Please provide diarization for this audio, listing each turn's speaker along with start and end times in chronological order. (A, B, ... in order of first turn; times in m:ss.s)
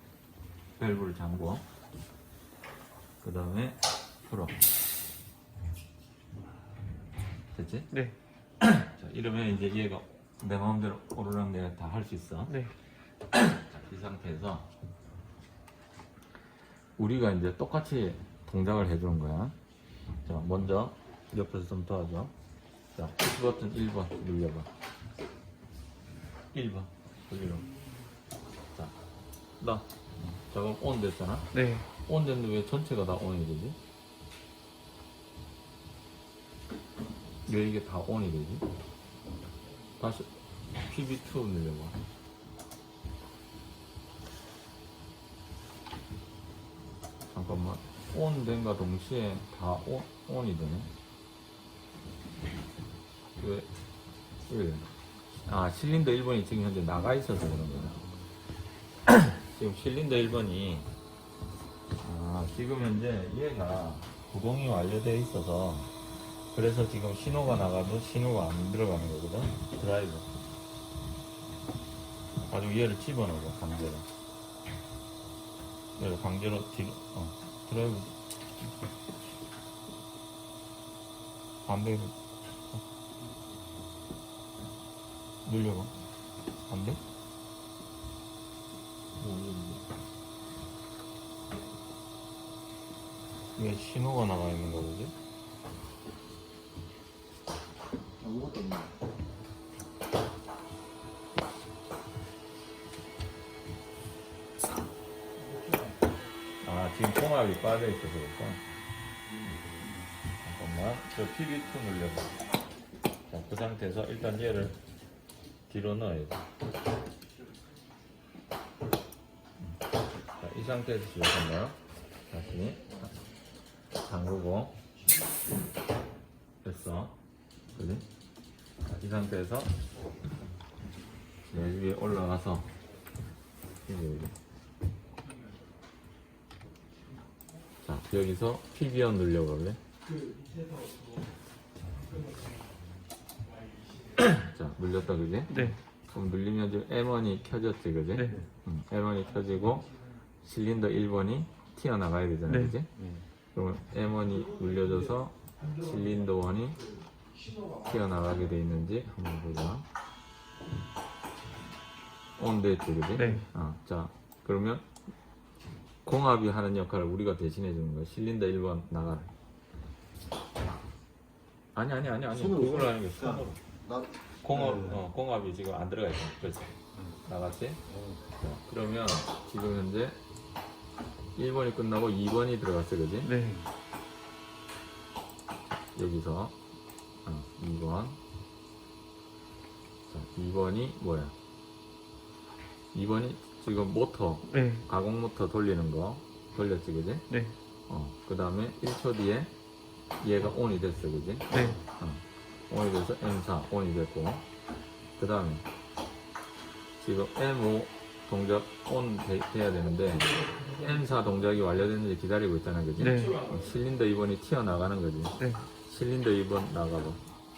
0:00.8-0:01.6 A
0:03.2-0:04.6 A
0:07.5-0:07.9 A
0:08.6-0:12.5 A
0:13.3-0:14.7 A
0:17.0-0:19.6 A
0:20.2-0:22.3 A
0:23.0-0:24.7 A
0:26.5-0:27.7 A
0:29.6-0:29.9 A
0:30.4-0:33.8 A
0:31.5-0:31.8 B
0:37.4-0:38.6 A
0:40.0-0:42.0 A
0:47.3-0:50.9 A
0:53.4-0:53.7 A
0:54.5-0:54.9 A
0:55.4-0:58.1 A
0:59.0-1:00.9 A
1:02.0-1:05.9 A
1:06.5-1:10.3 A
1:12.4-1:14.1 A
1:16.0-1:18.1 A
1:21.6-1:22.2 A
1:25.4-1:25.9 A
1:26.7-1:27.0 A
1:29.2-1:29.8 A
1:33.6-1:35.1 A
1:38.2-1:38.9 C
1:46.6-1:48.6 A
1:49.4-1:50.0 C
1:50.4-1:52.4 A
1:53.3-1:54.8 A
1:55.7-1:56.4 A
2:00.4-2:03.1 A
2:04.0-2:04.8 A
2:06.6-2:07.2 A
2:07.7-2:08.0 A
2:08.9-2:09.8 A
2:11.4-2:12.7 A
2:13.8-2:14.3 A
2:17.8-2:19.8 A
2:24.2-2:32.9 A
2:25.5-2:25.8 B
2:33.5-2:36.9 A
2:37.6-2:39.8 A
2:42.4-2:44.8 A
2:43.2-2:43.4 B
2:46.0-2:49.3 A
2:51.8-2:53.6 A
2:52.3-2:55.0 C
2:54.4-3:00.2 A
2:57.9-2:58.2 C
3:01.4-3:03.3 A
3:03.2-3:03.6 B
3:03.4-3:03.6 C
3:05.9-3:06.6 A
3:07.2-3:08.2 A
3:10.1-3:11.3 A
3:12.9-3:17.3 A
3:14.5-3:14.8 B
3:17.3-3:17.5 B
3:17.9-3:19.5 A
3:20.2-3:24.4 A
3:21.5-3:21.8 B
3:25.2-3:25.6 A
3:27.0-3:37.2 A
3:33.0-3:33.4 B
3:35.4-3:35.6 B